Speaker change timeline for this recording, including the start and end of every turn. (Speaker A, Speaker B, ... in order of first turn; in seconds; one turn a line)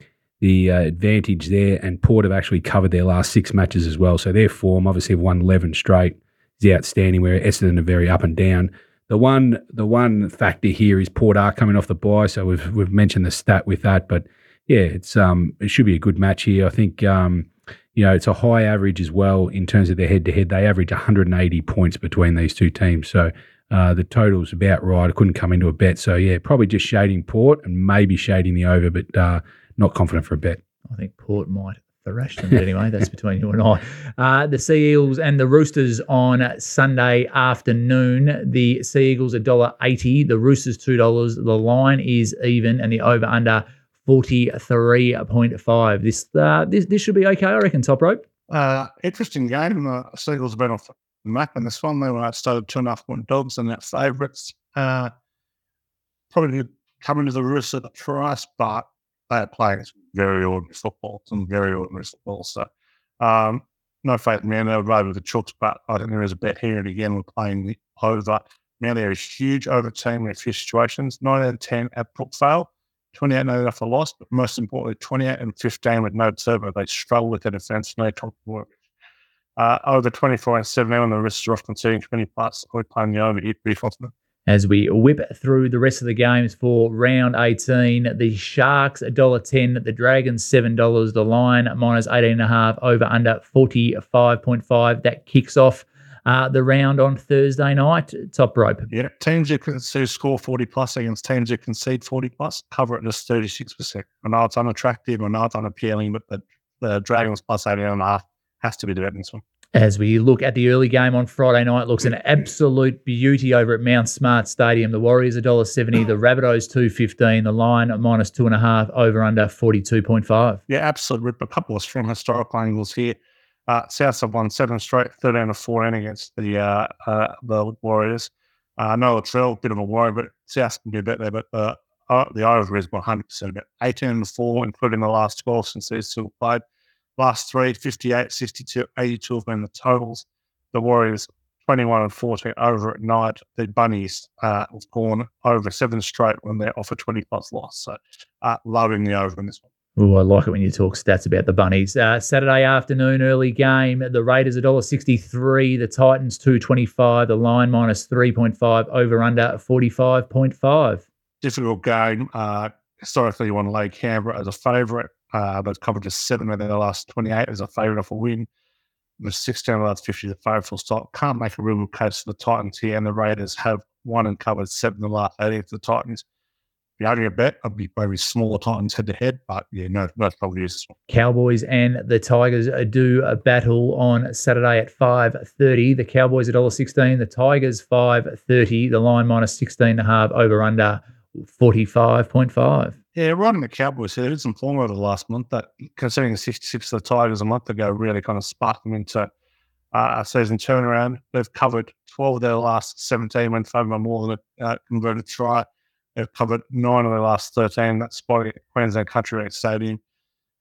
Speaker A: 0.4-30.6
Speaker B: 30.9-48.2
Speaker C: 48.5-55.1
Speaker C: 56.3-62.7
Speaker C: 63.2-78.7
Speaker C: 79.6-84.1
Speaker B: 84.5-98.9
Speaker C: 98.9-109.4
Speaker B: 109.8-120.6
Speaker C: 120.7-123.2
Speaker C: 123.7-136.6
Speaker C: 137.2-149.6
Speaker B: 150.0-161.1
Speaker C: 161.4-168.5
Speaker C: 169.2-176.2
Speaker C: 177.0-180.9
Speaker B: 181.1-192.9
Speaker C: 193.2-199.3
Speaker C: 199.9-205.7
Speaker C: 206.2-210.0